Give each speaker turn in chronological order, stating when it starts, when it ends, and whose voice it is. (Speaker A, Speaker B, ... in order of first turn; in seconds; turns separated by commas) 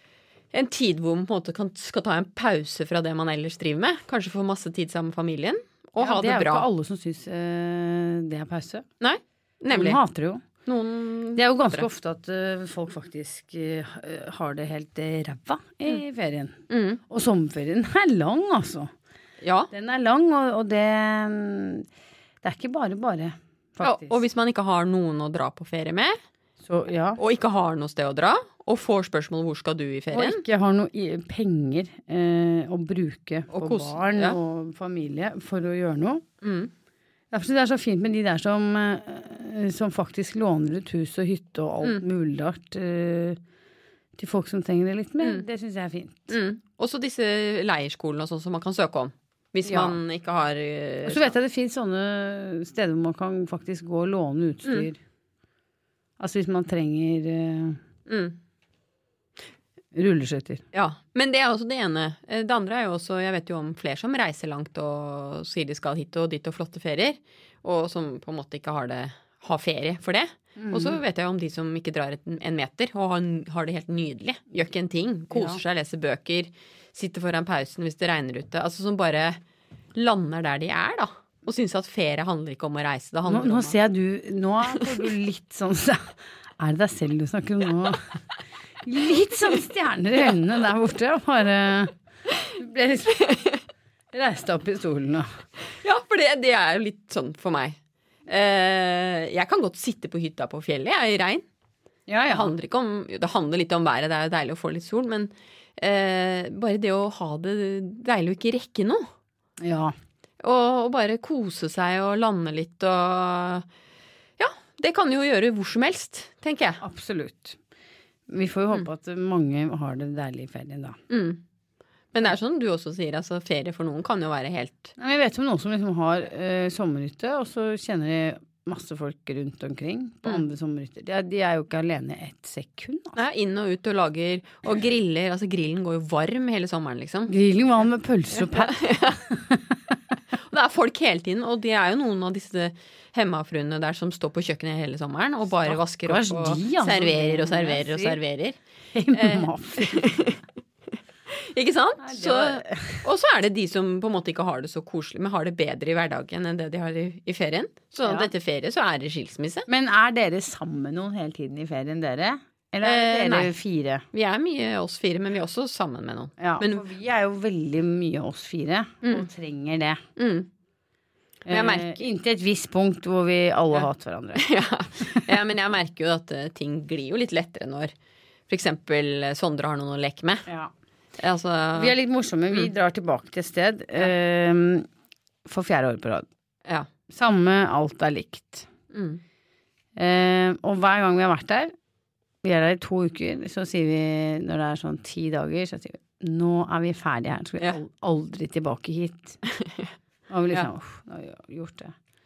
Speaker A: 0.5-6.7, Speaker B: 6.0-8.9, Speaker A: 9.0-10.0, Speaker B: 9.7-10.4, Speaker A: 10.7-11.9, Speaker B: 11.4-18.9, Speaker A: 16.7-17.0, Speaker A: 19.4-19.7, Speaker B: 19.7-21.9, Speaker B: 22.4-24.2, Speaker A: 23.8-26.2, Speaker B: 26.6-27.2, Speaker A: 27.2-30.4, Speaker B: 30.1-36.2, Speaker A: 33.5-34.4, Speaker A: 36.4-36.7, Speaker B: 37.3-43.4, Speaker B: 44.2-46.3, Speaker A: 46.3-51.3, Speaker B: 49.6-50.0, Speaker B: 51.1-55.0, Speaker B: 56.2-57.8, Speaker A: 58.1-58.4, Speaker B: 59.9-60.6, Speaker A: 60.7-79.4, Speaker B: 70.6-71.0, Speaker B: 75.3-75.6, Speaker A: 79.9-83.8, Speaker B: 83.3-88.2, Speaker B: 88.8-93.3, Speaker A: 93.3-93.6, Speaker B: 94.1-95.3, Speaker A: 95.8-101.5, Speaker B: 102.1-102.5, Speaker A: 102.3-109.0, Speaker B: 109.6-109.9, Speaker A: 110.4-113.7, Speaker A: 114.4-116.8, Speaker B: 116.8-117.6, Speaker B: 118.3-121.0, Speaker A: 121.1-121.4, Speaker A: 122.1-124.9, Speaker B: 125.0-133.2, Speaker A: 133.2-137.3, Speaker B: 137.3-140.0, Speaker A: 138.4-139.2, Speaker A: 140.4-148.6, Speaker B: 145.7-148.2, Speaker B: 148.9-150.1, Speaker A: 149.1-159.7, Speaker B: 152.0-153.1, Speaker B: 158.0-158.3, Speaker B: 159.7-164.0, Speaker A: 162.8-163.5, Speaker A: 164.1-166.8, Speaker B: 166.4-170.0, Speaker A: 170.2-170.5, Speaker B: 171.5-174.4, Speaker A: 171.5-172.0, Speaker A: 174.4-177.9, Speaker B: 175.0-175.3, Speaker A: 178.5-180.5, Speaker A: 181.2-181.9, Speaker B: 181.7-184.9, Speaker B: 185.5-186.3, Speaker B: 187.1-188.7, Speaker A: 188.9-189.2, Speaker B: 190.0-191.7, Speaker B: 192.4-199.4, Speaker A: 199.5-199.9, Speaker B: 200.3-201.9